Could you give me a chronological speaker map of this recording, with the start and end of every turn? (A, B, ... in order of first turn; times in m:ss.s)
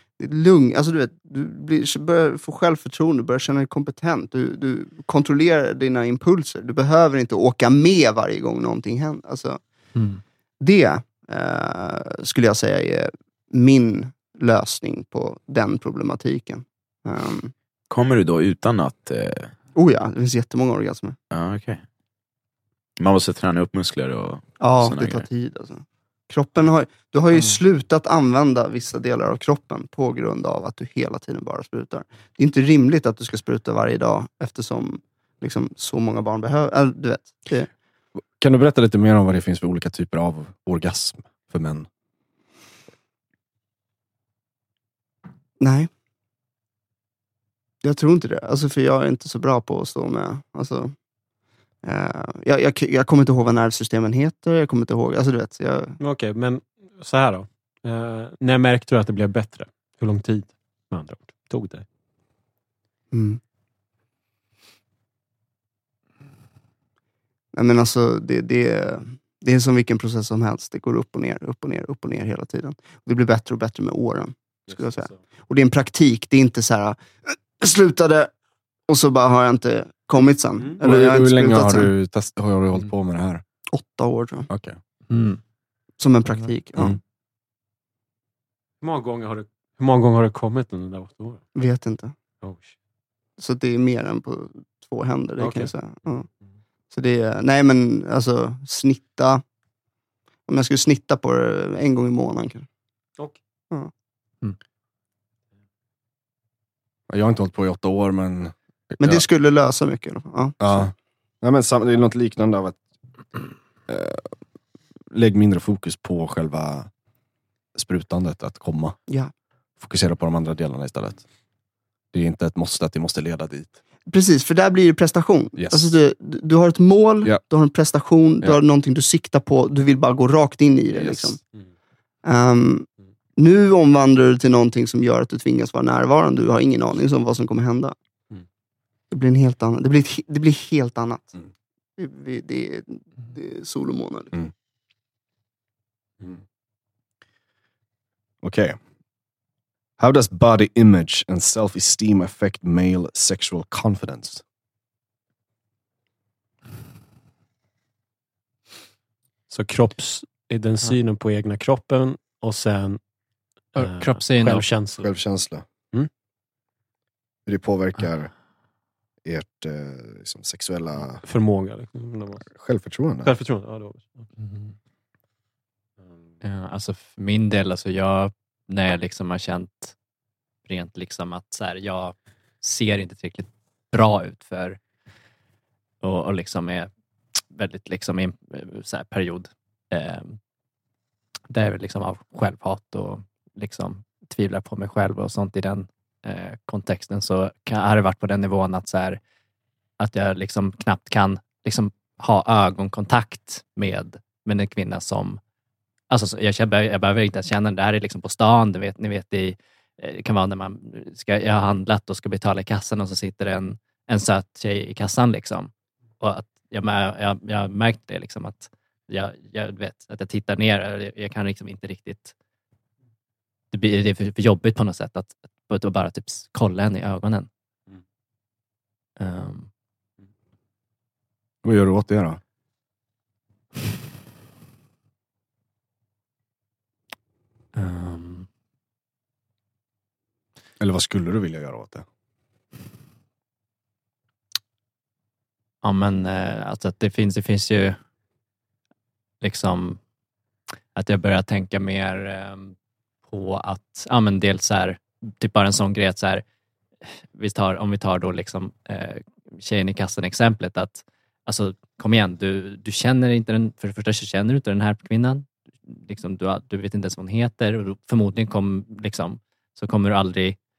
0:00.2-0:09.6 A
0:09.9-0:10.2 B
0:10.6-0:17.5 A
0:17.9-0:19.5 C
0:19.7-0:21.2 A
0:21.3-0:21.8 C
0:23.0-0:25.2 C
0:24.6-0:37.7 A
0:38.4-0:41.9 D
0:45.6-0:45.9 A
0:47.8-0:50.9 A
0:51.8-0:56.0 A
0:56.0-1:01.8 E
1:03.1-1:03.4 A
1:07.5-1:18.3 A
1:18.9-1:21.9 A
1:20.8-1:23.4 D
1:23.7-1:24.5 A
1:24.5-1:24.8 D
1:25.1-1:25.4 B
1:26.0-1:27.0 A
1:28.8-1:31.4 E
1:31.6-1:32.1 A
1:32.4-1:32.7 E
1:33.4-1:36.3 A
1:35.4-1:35.7 E
1:36.9-1:39.4 A
1:40.5-1:42.7 A
1:47.1-1:49.2 D
1:49.0-1:50.8 A
1:50.6-1:52.8 D
1:53.9-1:54.3 D
1:55.1-1:56.9 D
1:57.7-1:59.0 D
1:59.8-2:01.2 D
2:02.1-2:03.8 D
2:04.1-2:11.4 A
2:05.6-2:06.0 D
2:10.9-2:11.4 D
2:12.2-2:17.9 A
2:19.1-2:21.4 A
2:22.0-2:24.4 A
2:28.4-2:28.8 D
2:30.0-2:34.4 D
2:39.5-2:43.0 E
2:43.8-2:44.6 B
2:43.8-2:45.1 E
2:45.0-2:45.6 D
2:47.4-2:48.3 D
2:49.2-2:51.2 D
2:51.2-2:52.4 E
2:52.5-2:53.3 D
2:53.2-2:54.3 E
2:54.4-2:54.7 B
2:56.4-3:00.0 B
3:00.6-3:04.8 B
3:06.0-3:06.9 B
3:07.5-3:10.4 B
3:11.5-3:19.2 B
3:20.0-3:25.4 B
3:26.1-3:42.3 B
3:43.7-3:47.5 B
3:49.2-3:49.7 B
3:51.6-3:52.4 D
3:57.7-3:58.5 B
4:00.8-4:02.0 D
4:05.8-4:08.0 B
4:09.4-4:10.0 B
4:10.9-4:12.7 B
4:13.3-4:16.4 B
4:17.3-4:30.6 B